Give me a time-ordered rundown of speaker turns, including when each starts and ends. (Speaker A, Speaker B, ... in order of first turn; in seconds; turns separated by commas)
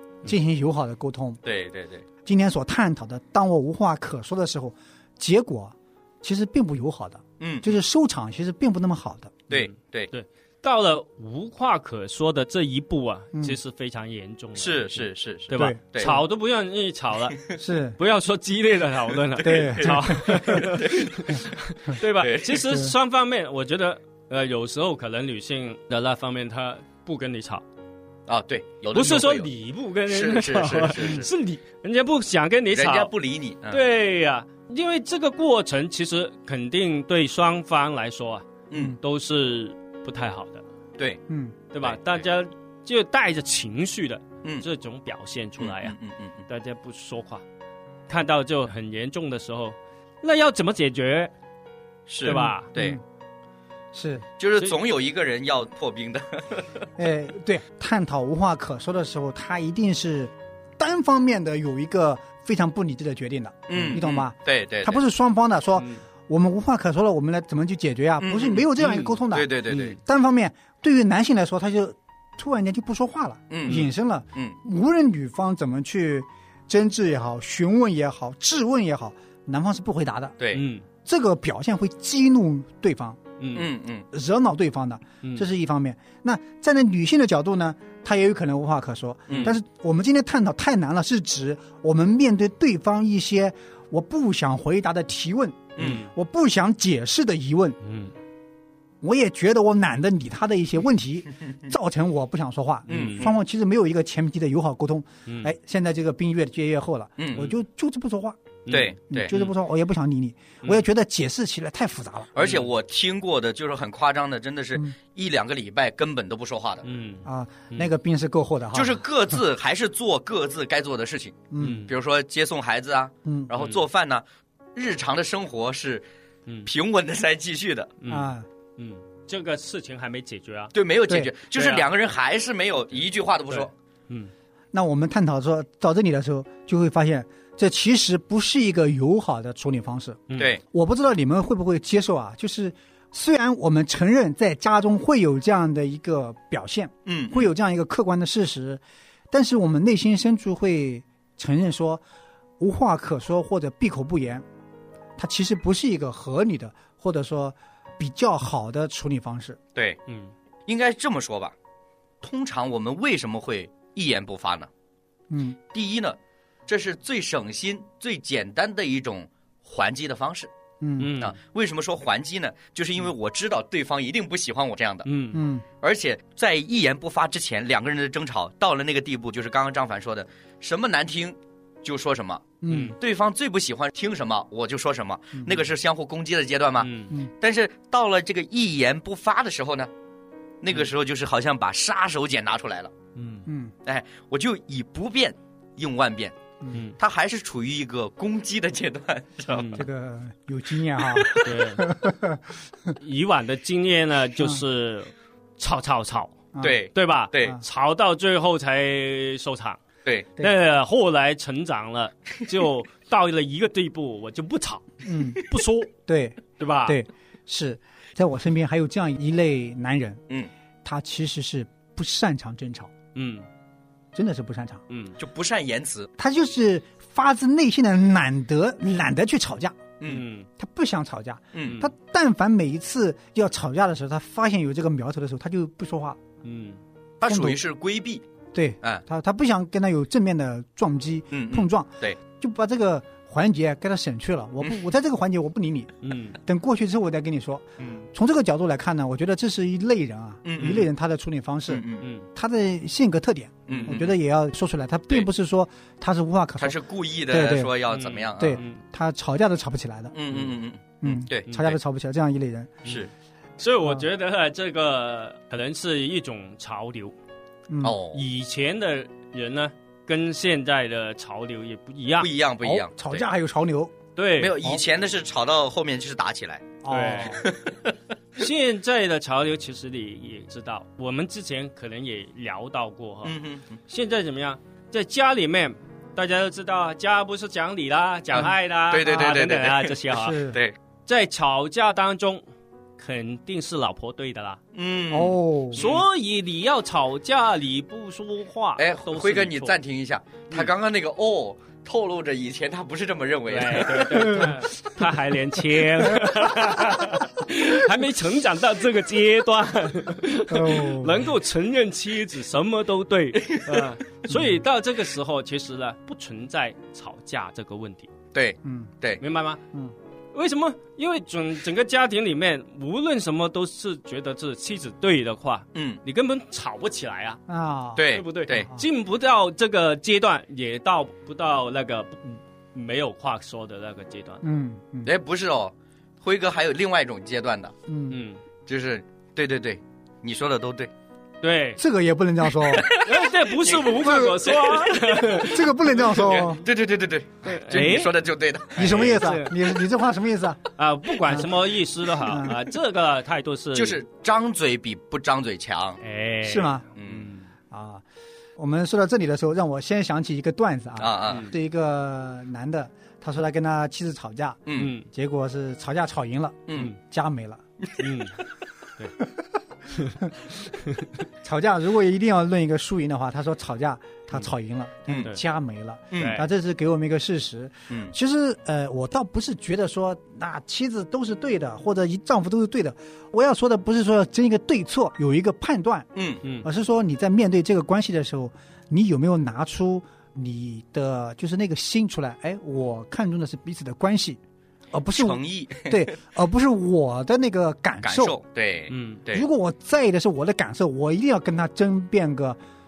Speaker A: 0.2-1.4, Speaker B: 1.4-2.0, Speaker A: 2.2-9.4, Speaker B: 7.4-7.8, Speaker B: 9.5-10.1, Speaker C: 9.5-17.4, Speaker B: 14.6-16.2, Speaker A: 15.5-15.8, Speaker A: 17.6-18.0, Speaker C: 18.0-27.6, Speaker A: 19.4-20.6, Speaker B: 19.4-21.4, Speaker B: 22.2-22.7, Speaker B: 28.3-29.5, Speaker C: 28.9-33.1, Speaker B: 30.1-31.3, Speaker B: 32.7-33.8, Speaker C: 33.7-40.6, Speaker B: 38.7-39.0, Speaker A: 41.3-41.5, Speaker C: 41.7-45.9, Speaker B: 41.8-42.2, Speaker B: 45.6-46.4, Speaker C: 46.5-47.4, Speaker C: 48.1-51.3, Speaker B: 52.1-53.0, Speaker C: 52.2-52.7, Speaker A: 52.2-53.0, Speaker A: 53.9-54.2, Speaker B: 54.4-56.7, Speaker A: 57.0-80.3, Speaker B: 63.7-65.0, Speaker B: 68.2-70.0, Speaker C: 69.7-70.0, Speaker B: 73.5-74.5, Speaker B: 80.4-80.6, Speaker C: 80.5-80.8, Speaker A: 81.0-83.2, Speaker C: 83.4-83.7, Speaker B: 83.5-84.0, Speaker A: 84.1-97.8, Speaker C: 85.2-85.5, Speaker B: 89.3-89.5, Speaker B: 95.8-96.0, Speaker C: 95.8-96.1, Speaker C: 97.8-98.1, Speaker A: 99.0-108.4, Speaker C: 102.9-103.3, Speaker B: 102.9-103.3, Speaker C: 105.3-105.5, Speaker B: 107.2-107.5, Speaker C: 108.7-109.5, Speaker B: 108.7-109.3, Speaker A: 109.1-112.3, Speaker B: 112.3-116.8, Speaker C: 112.4-112.7, Speaker C: 116.8-117.9, Speaker A: 117.2-119.0, Speaker B: 118.7-124.2, Speaker A: 121.5-121.8, Speaker C: 121.6-121.9, Speaker A: 123.2-123.5, Speaker B: 124.8-126.0, Speaker B: 126.7-127.9, Speaker C: 128.0-130.7, Speaker A: 128.1-128.5, Speaker B: 130.7-133.7, Speaker C: 131.5-131.9, Speaker C: 133.5-134.3, Speaker A: 134.7-152.0, Speaker B: 147.1-147.5, Speaker A: 152.6-154.4, Speaker A: 155.2-159.6, Speaker B: 159.8-160.0, Speaker C: 160.1-160.3, Speaker B: 160.7-161.5, Speaker B: 162.2-164.7, Speaker A: 165.3-165.6, Speaker B: 165.7-170.5, Speaker A: 170.8-171.1, Speaker C: 171.0-171.3, Speaker B: 171.2-175.1, Speaker C: 175.0-175.4, Speaker A: 175.3-175.6, Speaker B: 175.8-189.9, Speaker A: 182.6-182.9, Speaker C: 182.7-183.0, Speaker C: 186.8-187.1, Speaker B: 190.6-192.9, Speaker C: 193.2-193.5, Speaker A: 193.5-193.7, Speaker B: 193.9-196.3, Speaker B: 197.0-199.8, Speaker C: 199.5-199.8, Speaker A: 199.7-202.4, Speaker B: 201.1-201.5, Speaker C: 201.4-201.9, Speaker C: 203.0-206.4, Speaker A: 206.5-206.8, Speaker B: 206.6-207.6, Speaker C: 206.9-209.8, Speaker C: 210.4-215.9, Speaker A: 215.0-215.4, Speaker A: 216.1-220.2, Speaker C: 216.6-217.0, Speaker A: 220.8-222.9, Speaker C: 223.1-223.5, Speaker A: 224.1-224.8, Speaker C: 224.9-225.2, Speaker B: 225.2-226.1, Speaker A: 226.2-229.9, Speaker B: 230.0-230.2, Speaker C: 230.1-230.5, Speaker A: 230.6-236.2, Speaker B: 231.5-231.8, Speaker C: 236.4-236.8, Speaker B: 237.2-238.2, Speaker A: 237.2-237.6, Speaker A: 238.5-256.8, Speaker B: 241.3-242.2, Speaker C: 246.0-246.4, Speaker B: 250.4-250.9, Speaker B: 251.7-252.1, Speaker C: 252.0-252.2, Speaker B: 253.7-254.1, Speaker B: 256.6-258.6, Speaker A: 257.3-257.7, Speaker C: 257.9-258.8, Speaker A: 258.4-260.1, Speaker B: 260.1-261.8, Speaker A: 261.0-262.8, Speaker B: 262.9-263.1, Speaker C: 263.6-267.1, Speaker A: 267.7-268.0, Speaker B: 267.8-268.2, Speaker C: 268.1-272.3, Speaker B: 272.2-273.2, Speaker A: 272.6-274.0, Speaker C: 274.1-274.5, Speaker B: 274.4-277.9, Speaker A: 276.8-277.4, Speaker C: 276.9-277.4, Speaker C: 278.4-283.4, Speaker B: 283.2-283.8, Speaker C: 283.9-290.4, Speaker B: 288.4-289.9, Speaker A: 290.1-290.6, Speaker C: 291.1-292.4, Speaker C: 293.0-294.6, Speaker B: 294.7-296.0, Speaker A: 295.1-295.8, Speaker C: 295.8-299.8, Speaker B: 298.8-304.5, Speaker C: 303.5-318.1, Speaker A: 304.3-304.5, Speaker A: 310.5-311.3, Speaker B: 313.5-313.8, Speaker B: 318.3-319.2, Speaker A: 318.6-318.9, Speaker C: 319.2-319.6, Speaker C: 320.3-327.4, Speaker B: 325.8-326.0, Speaker A: 327.5-328.1, Speaker B: 328.0-328.7, Speaker C: 328.1-334.4, Speaker A: 334.4-335.1, Speaker B: 335.0-337.8, Speaker A: 337.9-338.2, Speaker C: 338.1-338.4, Speaker B: 338.7-340.9, Speaker C: 341.4-341.8, Speaker A: 341.8-342.9, Speaker B: 342.7-345.4, Speaker C: 342.9-345.9, Speaker A: 344.0-346.6, Speaker B: 346.0-349.2, Speaker C: 347.4-348.1, Speaker A: 348.8-350.6, Speaker C: 348.8-349.6, Speaker C: 350.8-354.0, Speaker A: 352.2-352.6, Speaker B: 353.7-356.0, Speaker C: 356.0-357.5, Speaker A: 356.4-356.8, Speaker B: 357.0-357.3, Speaker A: 357.7-358.0, Speaker A: 358.6-367.6, Speaker B: 361.0-361.5, Speaker B: 364.7-364.9, Speaker C: 364.8-365.1, Speaker B: 366.7-366.9, Speaker C: 368.0-368.4, Speaker C: 369.9-370.2, Speaker C: 370.8-371.1, Speaker A: 371.4-386.1, Speaker B: 376.1-376.4, Speaker C: 376.2-376.4, Speaker B: 386.2-386.4, Speaker A: 386.6-394.4, Speaker A: 394.9-398.4, Speaker B: 395.1-396.1, Speaker B: 398.0-399.5, Speaker C: 398.9-399.2, Speaker A: 399.3-402.6